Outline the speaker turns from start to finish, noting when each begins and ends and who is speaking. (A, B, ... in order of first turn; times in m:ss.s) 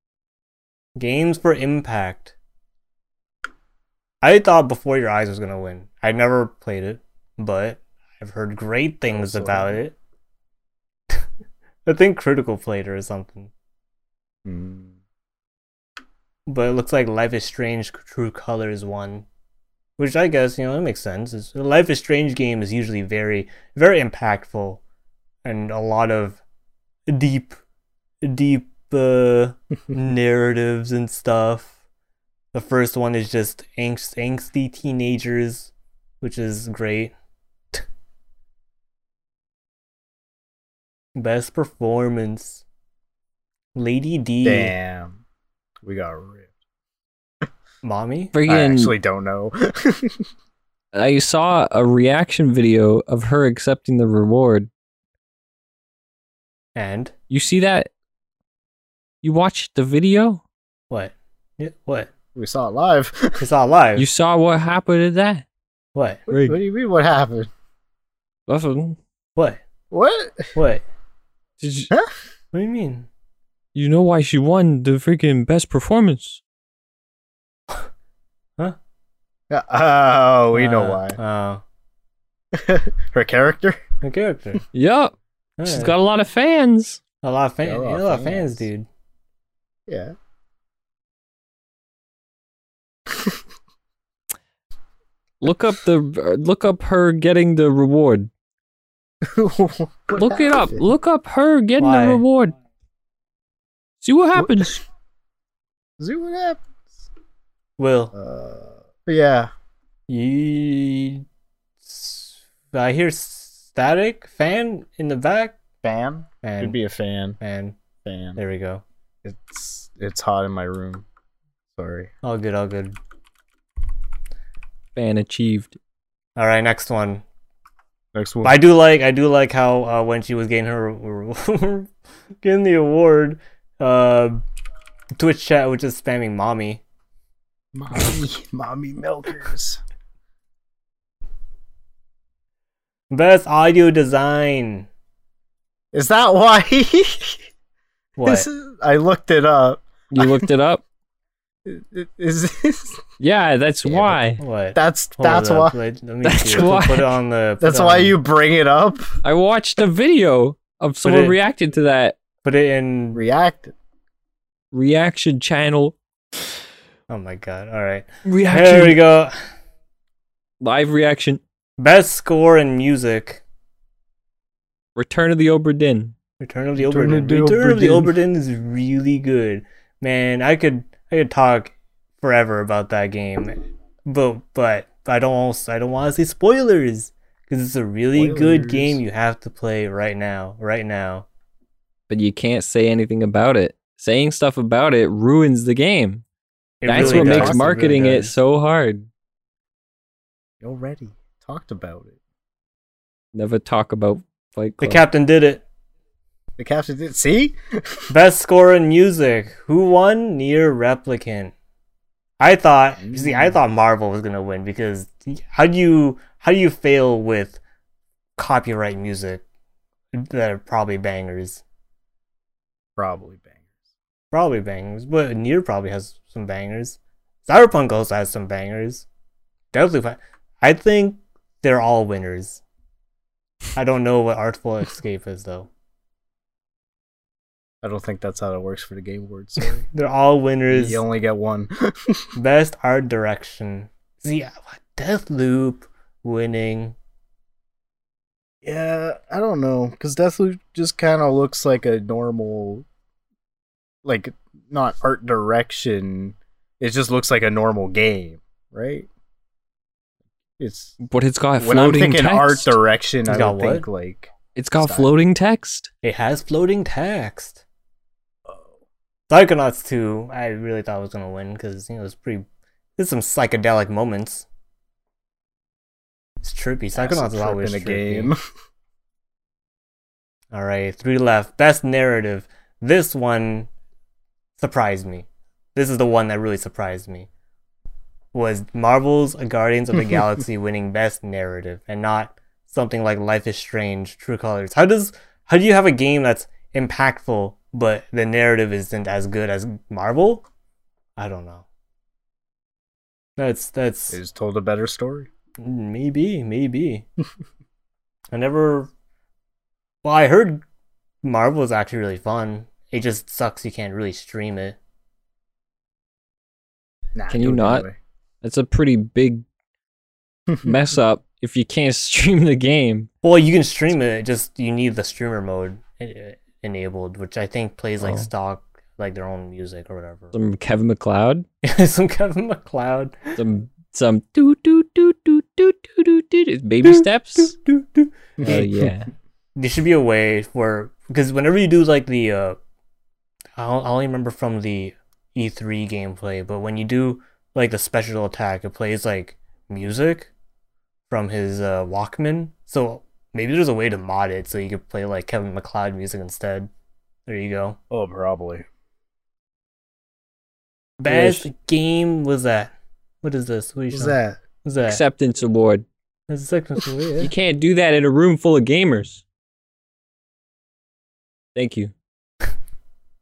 0:01.0-0:02.3 A
0:04.2-0:10.0 A
0:09.1-0:09.8 B
0:11.8-0:13.5 A
0:14.4-0:15.0 B
0:16.5-0:19.2 A
0:20.0-0:24.8 A
0:25.4-0:26.4 A
0:27.1-0:27.6 A
0:28.2-0:31.7 A
0:32.5-0:37.1 A
0:41.2-0:42.6 A
0:43.7-0:44.7 A
0:44.4-0:45.2 B
0:45.8-0:46.5 B
0:47.8-0:48.3 A
0:48.3-0:48.9 C
0:48.5-0:50.2 B
0:50.9-0:54.7 C
0:56.7-0:57.1 A
0:57.3-0:57.9 C
0:59.2-1:00.4 C
1:00.9-1:02.1 A
1:02.3-1:03.5 B
1:03.4-1:04.1 A
1:04.0-1:05.4 C
1:05.9-1:06.2 A
1:06.3-1:06.6 C
1:06.3-1:07.5 B
1:08.5-1:09.0 C
1:09.4-1:09.6 A
1:09.9-1:10.5 B
1:10.5-1:10.8 A
1:11.6-1:11.9 C
1:12.5-1:13.1 A
1:13.7-1:16.4 C
1:19.5-1:21.2 B
1:20.5-1:21.6 A
1:22.5-1:23.8 B
1:24.0-1:24.6 A
1:24.7-1:25.1 C
1:25.6-1:25.9 A
1:25.6-1:27.0 C
1:27.2-1:28.9 A
1:27.6-1:28.7 B
1:29.9-1:30.1 B
1:33.1-1:33.4 B
1:35.4-1:38.3 C
1:39.2-1:40.9 B
1:40.1-1:42.5 C
1:41.8-1:42.2 A
1:44.0-1:44.8 C
1:44.3-1:44.8 B
1:46.0-1:46.6 B
1:47.8-1:48.1 A
1:48.1-1:49.5 B
1:50.1-1:51.2 A
1:51.8-1:55.6 A
1:55.8-1:57.4 B
1:56.4-1:56.8 A
1:57.4-1:57.8 A
1:58.0-1:58.4 B
1:58.4-1:58.8 A
1:59.2-2:01.0 B
2:01.8-2:02.1 B
2:02.2-2:03.0 A
2:04.9-2:05.8 C
2:06.4-2:07.2 A
2:08.1-2:08.6 B
2:08.4-2:11.9 A
2:12.4-2:14.4 A
2:15.2-2:16.8 A
2:17.7-2:19.8 B
2:23.1-2:24.9 A
2:25.9-2:27.4 B
2:28.2-2:28.5 A
2:28.2-2:30.5 B
2:30.1-2:30.8 C
2:31.6-2:33.0 B
2:33.2-2:34.4 C
2:33.8-2:34.2 B
2:34.4-2:38.2 A
2:34.7-2:35.8 B
2:36.2-2:37.1 C
2:37.6-2:39.1 B
2:39.2-2:42.2 C
2:41.0-2:41.4 A
2:42.4-2:43.2 A
2:43.1-2:43.7 B
2:44.7-2:46.0 C
2:47.1-2:49.3 A
2:48.2-2:49.0 C
2:50.6-2:51.4 C
2:51.8-2:53.4 A
2:55.0-2:56.1 C
2:56.4-3:11.3 A
2:56.8-2:58.1 B
3:08.1-3:09.0 B
3:12.1-3:16.2 C
3:16.8-3:18.3 A
3:16.8-3:19.1 C
3:16.9-3:18.0 B
3:20.6-3:22.2 B
3:23.3-3:25.0 C
3:24.8-3:25.6 A
3:26.6-3:28.1 B
3:28.1-3:31.5 A
3:32.4-3:37.6 A
3:33.0-3:33.6 B
3:38.4-3:39.4 A
3:40.1-3:41.6 A
3:43.0-3:43.5 B
3:44.3-3:49.0 A
3:49.7-3:52.6 A
3:53.7-3:55.7 A
3:57.8-3:59.8 B
3:59.6-4:01.0 A
4:00.7-4:02.3 B
4:02.4-4:07.0 A
4:08.6-4:12.8 B
4:14.0-4:19.1 B
4:20.6-4:21.0 B
4:21.0-4:22.8 C
4:21.6-4:25.1 B
4:23.3-4:23.9 A
4:24.6-4:25.9 C
4:26.0-4:27.6 A
4:28.5-4:28.7 B
4:29.3-4:32.4 A
4:33.0-4:34.4 A
4:36.4-4:38.3 A
4:36.9-4:38.4 B
4:40.5-4:43.7 A
4:44.6-4:47.3 A
4:48.3-5:00.4 A
5:01.2-5:01.6 A
5:03.4-5:04.2 A
5:04.1-5:05.3 B
5:05.6-5:07.0 A
5:08.3-5:08.9 A
5:10.0-5:10.6 A
5:11.2-5:14.8 A
5:17.1-5:18.0 B
5:17.3-5:17.8 C
5:18.4-5:19.4 C
5:20.5-5:20.7 B
5:20.6-5:23.1 C
5:23.2-5:30.4 A
5:28.0-5:28.3 C
5:30.3-5:31.4 C
5:31.6-5:33.4 A
5:33.4-5:37.6 C
5:36.8-5:38.6 A
5:38.4-5:38.9 B
5:38.4-5:39.1 C
5:39.6-5:42.6 A
5:43.6-5:50.3 A
5:51.1-5:56.7 A
5:57.3-5:57.8 A
5:57.9-5:58.6 B
6:01.0-6:05.0 A
6:01.1-6:01.4 C
6:03.9-6:04.4 B
6:04.8-6:05.8 C
6:06.3-6:07.3 A
6:07.2-6:09.2 C
6:11.5-6:11.9 C